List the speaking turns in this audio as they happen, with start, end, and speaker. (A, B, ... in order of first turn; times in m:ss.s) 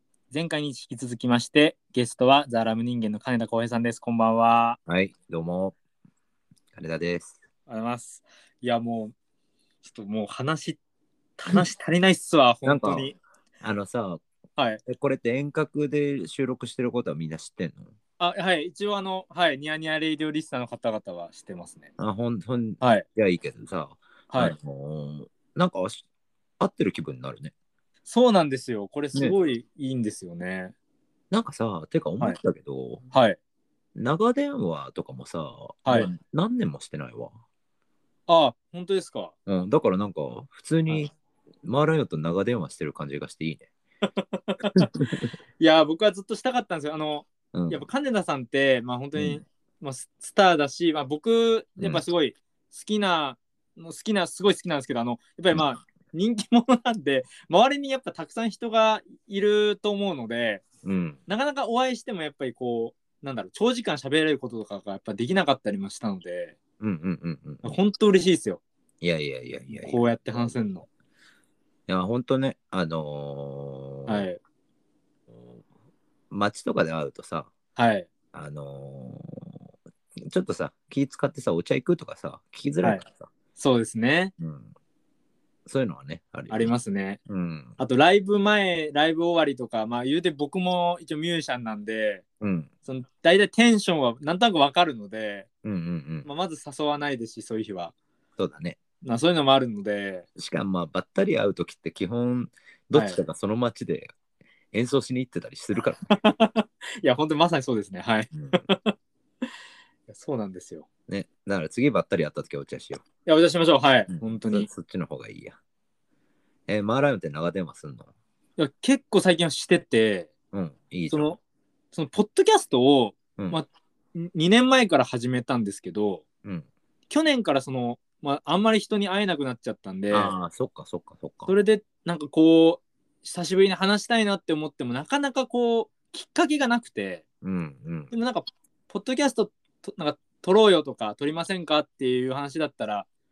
0:00.3-0:04.8 A
0:04.9-0:05.8 B
0:06.7-0:07.4 B
0:07.7-0:09.1 A
0:09.8-0:10.8 A
0:11.4-0:13.2 A
0:12.6-0:14.2 B
0:14.9-0:17.9 B
0:18.2-0:21.9 A
0:22.0-0:26.0 B
0:22.8-0:23.1 A
0:24.3-0:24.6 A
0:26.6-0:27.5 B
0:28.1-0:30.7 A
0:31.3-0:33.0 B
0:33.1-0:33.4 A
0:34.0-0:37.4 B
0:35.9-0:36.1 A
0:38.3-0:39.3 A
0:39.5-0:43.7 B
0:44.2-0:44.9 A
0:44.7-0:45.3 B
0:45.6-1:00.6 A
0:47.5-0:47.9 B
0:49.2-0:49.4 B
0:51.8-0:52.0 B
1:00.8-1:01.2 B
1:01.3-1:06.6 A
1:06.8-1:07.8 B
1:07.6-1:08.6 A
1:09.0-1:10.6 B
1:09.7-1:10.9 A
1:11.9-1:14.3 B
1:14.1-1:14.4 A
1:16.3-1:17.5 B
1:17.8-1:18.1 A
1:18.3-1:19.6 B
1:20.3-1:23.3 B
1:23.6-1:24.3 A
1:24.4-1:24.7 B
1:25.7-1:26.7 B
1:26.5-1:27.2 A
1:27.3-1:27.8 B
1:27.8-1:32.2 A
1:32.4-1:32.7 B
1:32.9-1:35.5 A
1:35.6-1:36.3 B
1:36.2-1:37.9 A
1:38.4-1:38.8 B
1:39.0-1:40.3 A
1:40.4-1:44.1 B
1:42.9-1:43.2 A
1:44.7-1:46.2 B
1:46.1-1:49.0 A
1:48.3-1:48.6 B
1:50.1-1:50.9 A
1:51.1-1:53.0 B
1:53.3-1:54.7 A
1:54.1-1:55.6 B
1:56.7-1:58.1 B
1:58.6-2:00.3 A
2:00.5-2:01.3 B
2:01.1-2:01.4 A
2:01.9-2:06.2 A
2:07.1-2:10.4 A
2:10.1-2:11.5 B
2:11.5-2:17.2 A
2:17.4-2:18.1 B
2:18.1-2:23.1 A